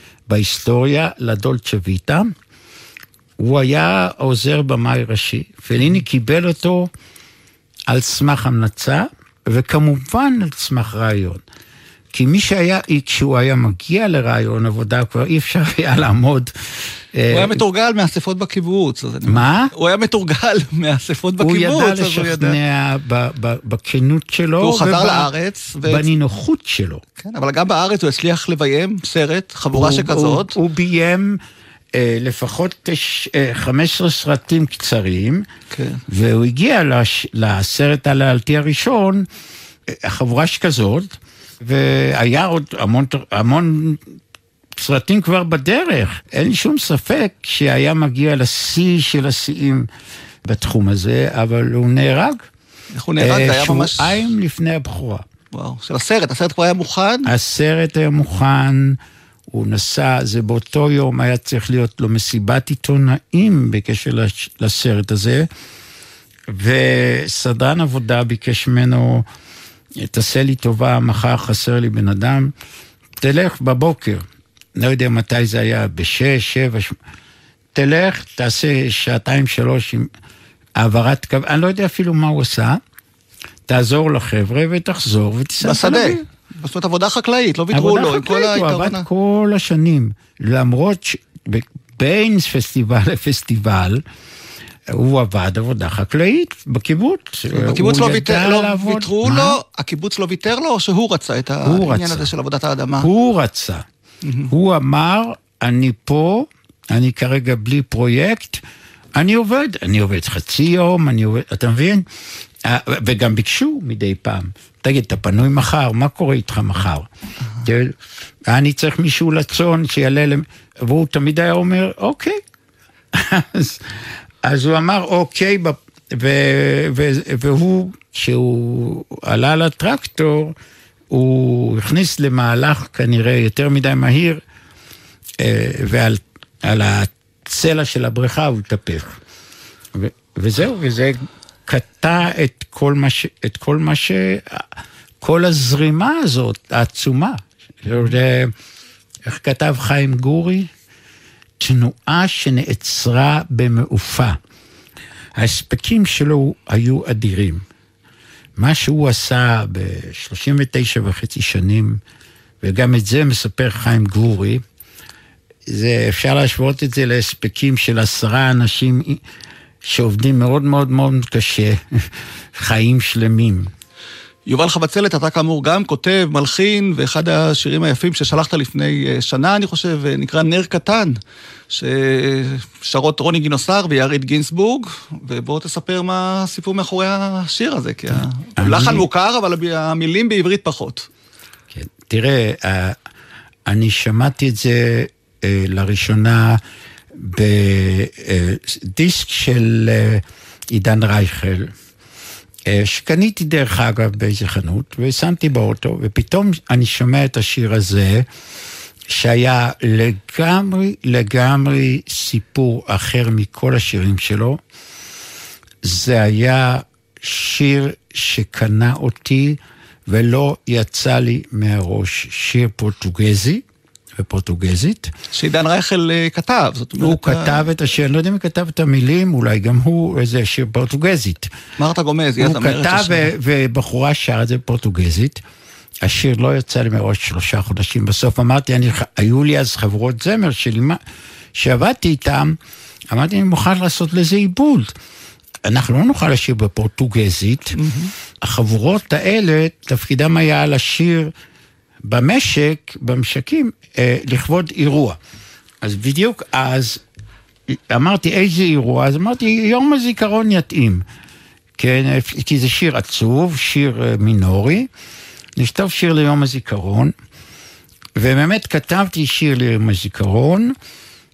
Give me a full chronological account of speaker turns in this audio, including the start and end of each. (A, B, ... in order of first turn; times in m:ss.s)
0:00.3-0:02.3 A
0:03.4-0:06.9 A
0:07.9-0:11.4 A
0:12.1-0:16.5 A
0:17.1-0:17.6 A
0:17.3-0:22.6 B
0:19.3-0:19.7 A
0:21.4-0:25.3 A
0:24.6-0:26.1 B
0:25.8-0:27.0 A
0:27.2-0:30.5 B
0:29.7-0:31.4 A
0:31.9-0:35.4 A
0:35.7-0:36.0 B
0:36.1-0:39.2 A
0:39.9-0:44.0 A
0:44.8-0:49.9 A
0:50.4-0:52.5 A
0:53.0-0:54.3 B
0:53.2-0:55.2 A
0:55.5-0:57.3 B
0:57.2-0:59.0 A
0:59.5-1:05.5 A
1:06.5-1:09.2 A
1:10.0-1:12.5 A
1:13.2-1:14.2 A
1:14.7-1:16.9 A
1:17.7-1:20.1 A
1:20.8-1:22.8 A
1:23.7-1:26.2 A
1:25.6-1:29.0 B
1:27.7-1:34.0 A
1:34.9-1:39.6 A
1:37.5-1:43.1 B
1:41.6-1:42.3 A
1:43.0-1:43.8 A
1:44.2-1:44.5 B
1:44.5-1:48.6 A
1:49.1-1:52.0 A
1:52.6-1:57.1 A
1:57.6-1:58.0 A
1:58.5-2:02.4 A
2:03.1-2:10.5 A
2:11.1-2:14.4 A
2:15.4-2:19.2 A
2:19.9-2:24.7 A
2:25.2-2:28.5 A
2:29.2-2:30.7 A
2:31.6-2:34.4 A
2:35.4-2:37.6 A
2:38.6-2:42.0 A
2:42.6-2:44.6 A
2:45.7-2:49.2 A
2:49.8-2:53.7 A
2:54.5-3:01.2 B
3:01.7-3:11.1 B
3:08.6-3:09.0 A
3:11.7-3:13.0 A
3:13.7-3:16.6 A
3:17.2-3:21.7 A
3:22.7-3:28.3 A
3:29.1-3:34.6 A
3:35.8-3:43.6 A
3:44.2-3:45.1 A
3:45.3-3:47.6 B
3:47.0-3:51.5 A
3:51.8-3:53.3 B
3:52.4-3:55.4 A
3:56.0-4:01.0 A
4:01.5-4:02.6 A
4:03.1-4:04.9 A
4:05.6-4:07.8 A
4:07.8-4:08.1 B
4:08.4-4:11.3 A
4:12.0-4:15.2 A
4:15.8-4:17.0 A
4:17.7-4:21.0 A
4:21.8-4:24.9 A
4:25.6-4:27.1 A
4:28.2-4:30.7 A